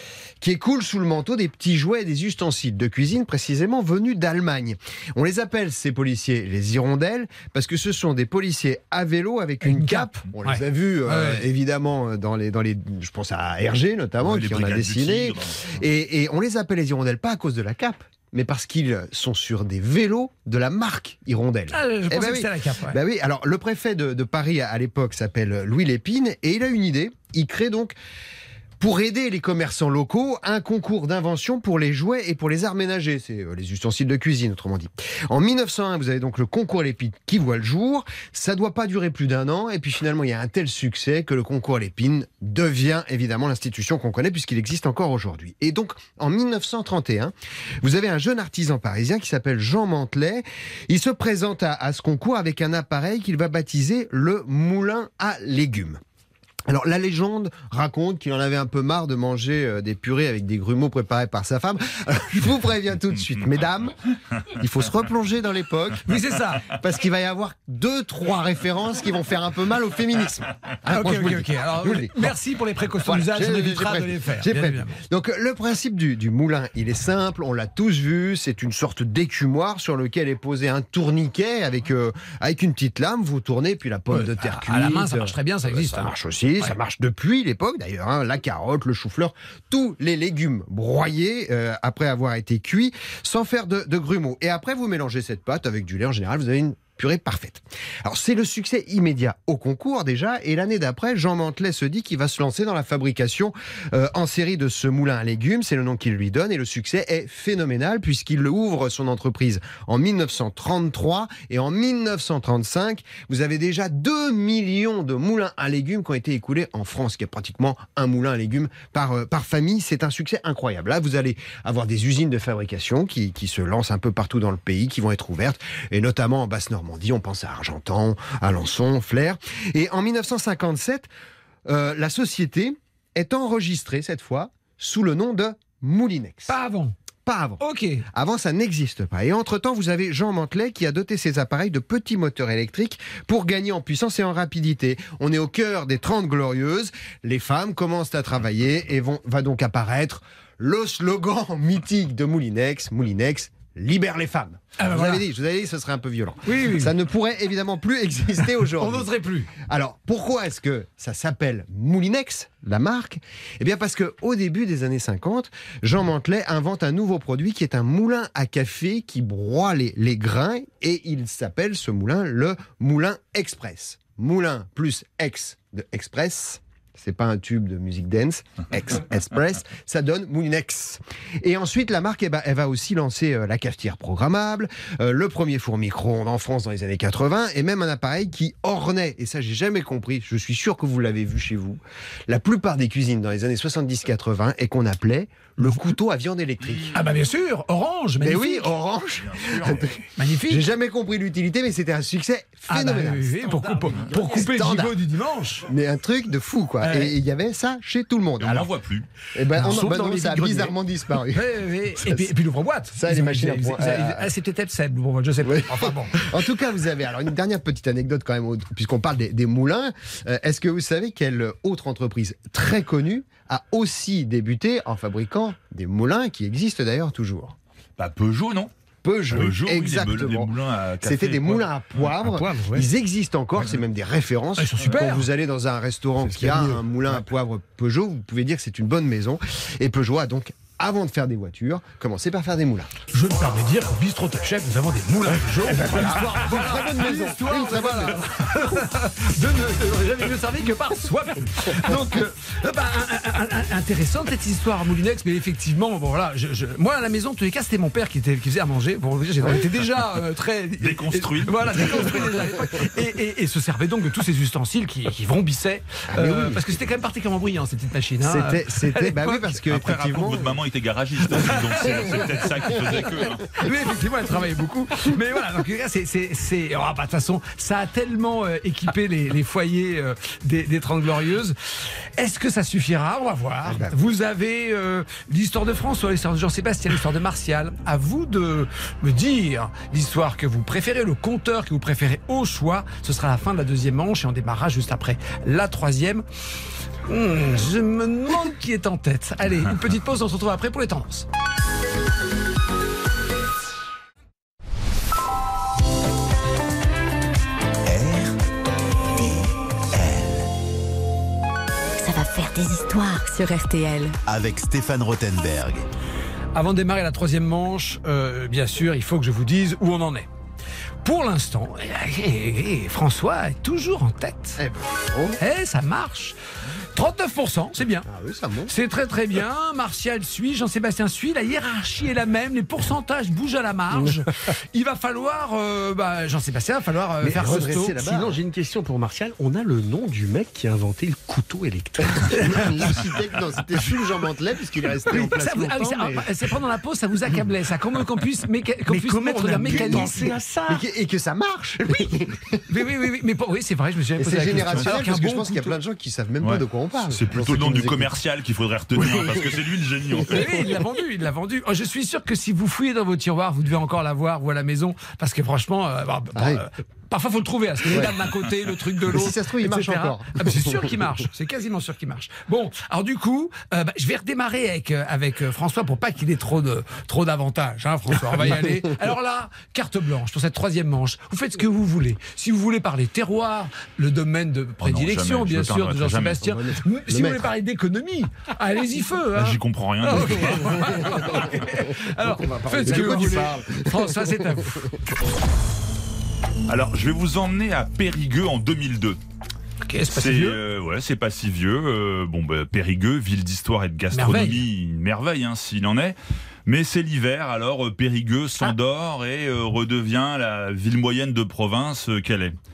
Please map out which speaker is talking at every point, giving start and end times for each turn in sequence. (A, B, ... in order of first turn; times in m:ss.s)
0:00.4-0:28.0 A
0:09.6-0:11.4 B
0:14.2-0:15.8 C
0:21.7-0:23.0 B
0:28.8-0:56.0 A
0:56.7-1:04.0 A
1:04.5-1:12.4 A
1:06.1-1:06.7 B
1:10.9-1:15.0 B
1:13.0-2:11.1 A
1:24.1-1:26.7 B
2:11.7-2:16.6 A
2:16.5-2:17.0 B
2:17.3-2:17.6 A
2:17.6-2:18.0 B
2:18.1-3:17.0 A
2:34.8-2:35.2 B
2:36.4-2:37.0 B
2:38.8-2:39.5 B
3:16.7-3:17.0 C
3:16.9-3:18.8 B
3:18.2-3:25.0 A
3:19.2-3:20.0 C
3:20.2-3:20.7 B
3:22.7-3:25.7 B
3:23.5-3:24.4 D
3:25.7-3:28.7 A
3:26.8-3:27.2 B
3:28.4-3:29.1 C
3:29.3-3:32.3 A
3:29.5-3:30.8 D
3:31.3-3:36.2 B
3:32.9-3:34.3 A
3:35.4-3:47.6 A
3:48.0-3:48.7 C
3:49.0-4:02.9 A
3:49.3-3:51.7 C
3:52.1-3:52.9 D
3:54.6-3:55.3 B
3:56.2-3:57.2 D
4:03.1-4:29.6 B
4:05.6-4:08.6 A
4:20.8-4:22.4 C
4:26.1-4:26.6 A
4:28.2-4:30.5 A
4:29.7-4:33.4 C
4:33.6-4:56.2 B
4:43.6-4:44.0 A
4:57.1-5:01.3 B
5:07.8-5:08.4 E
5:09.2-5:10.5 E
5:12.0-5:14.2 F
5:14.2-5:15.8 E
5:16.5-5:20.3 B
5:21.0-5:24.6 B
5:24.6-5:25.4 A
5:25.4-5:26.4 B
5:26.9-5:28.1 B
5:28.1-5:28.7 A
5:28.7-5:38.0 B
5:37.2-5:42.8 D
5:37.3-5:38.4 A
5:42.2-5:46.3 A
5:45.1-5:50.2 B
5:48.9-5:50.8 D
5:49.7-5:50.2 A
5:50.7-5:52.6 A
5:52.7-5:55.8 B
5:54.2-5:58.1 A
5:56.4-6:00.7 C
5:59.0-5:59.5 A
6:00.3-6:34.9 B
6:06.4-6:06.6 A
6:09.0-6:10.9 A
6:24.8-6:26.4 C
6:26.4-6:27.5 A
6:29.4-6:31.6 C
6:32.2-6:34.7 A
6:36.7-6:39.2 C
6:39.9-6:40.6 B
6:40.1-6:52.6 C
6:44.1-6:44.7 B